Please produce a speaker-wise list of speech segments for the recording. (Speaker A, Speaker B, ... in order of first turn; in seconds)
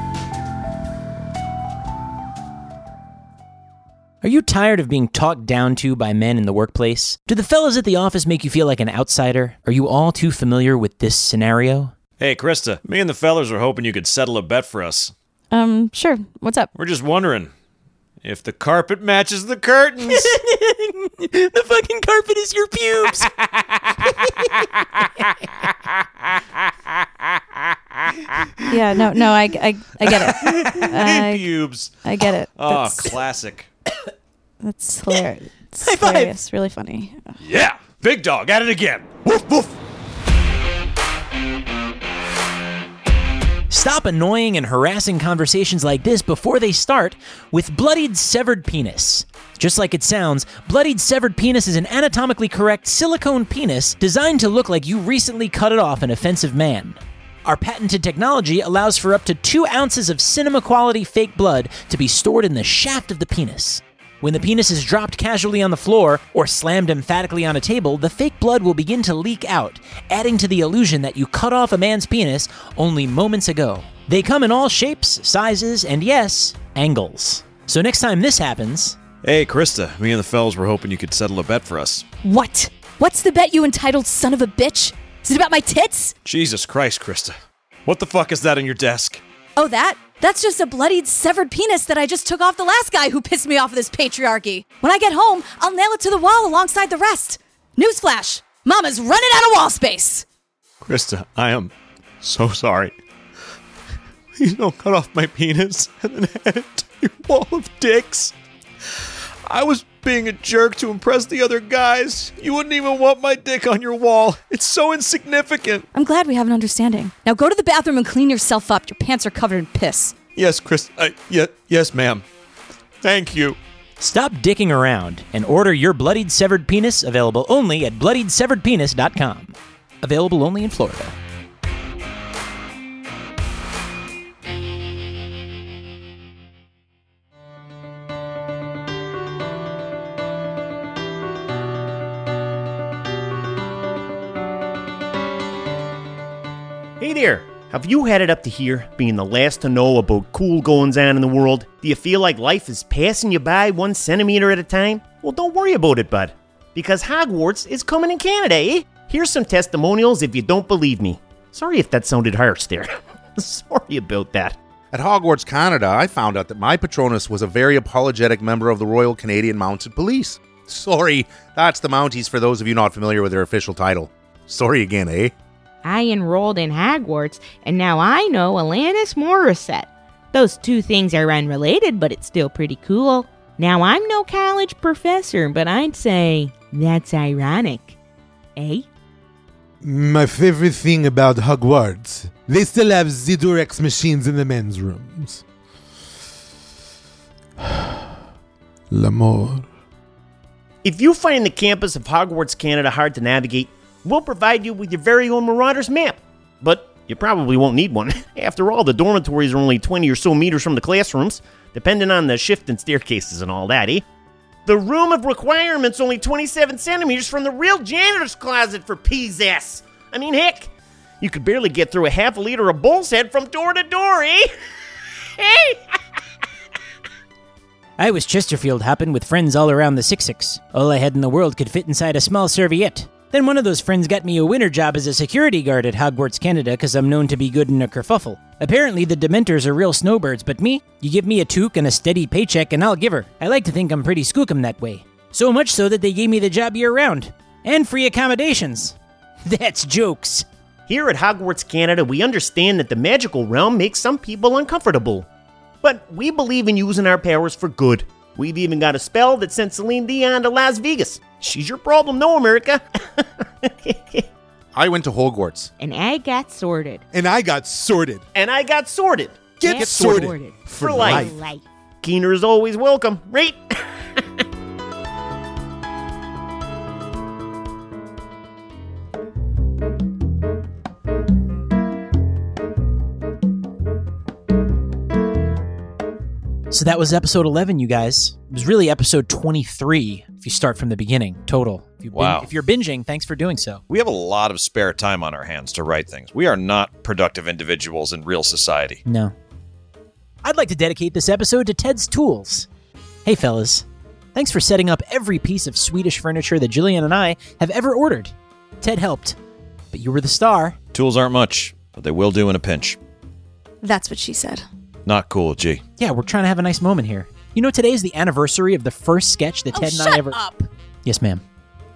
Speaker A: 4.2-11.9, 20.1-23.3, 24.1-24.6, 35.8-36.3, 43.7-79.0, 124.0-131.2, 228.0-250.5, 286.7-293.8, 299.0-299.3, 300.4-302.7, 303.2-309.4, 309.9-310.8, 316.0-320.4, 321.0-321.4
Speaker B: 12.2-15.1, 16.7-17.5, 18.2-20.3, 30.0-33.7, 37.4-39.7, 79.2-82.0, 86.2-87.3, 87.8-89.2, 100.8-103.0, 104.3-108.3, 109.5-115.8, 120.3-122.2, 123.0-123.6, 292.1-292.5, 293.9-299.0, 310.9-313.0, 315.1-315.8
Speaker C: 15.5-16.7, 28.7-31.5, 32.0-33.1, 34.6-37.4, 82.2-86.1, 89.5-100.2, 115.9-120.2, 313.8-314.6, 319.7-320.6
Speaker D: 147.0-164.6, 200.8-214.0, 214.7-220.7, 221.2-224.5, 225.4-226.0, 250.9-255.3, 255.8-264.3, 268.3-269.6, 270.8-271.3, 272.0-274.4
Speaker E: 164.9-175.3, 264.7-265.7, 267.1-268.2, 269.6-270.2, 270.7-271.2
Speaker F: 175.8-188.0, 188.6-188.8, 265.8-267.0, 269.6-271.6
Speaker G: 189.8-195.4, 198.9-199.6, 269.6-270.3, 270.9-271.3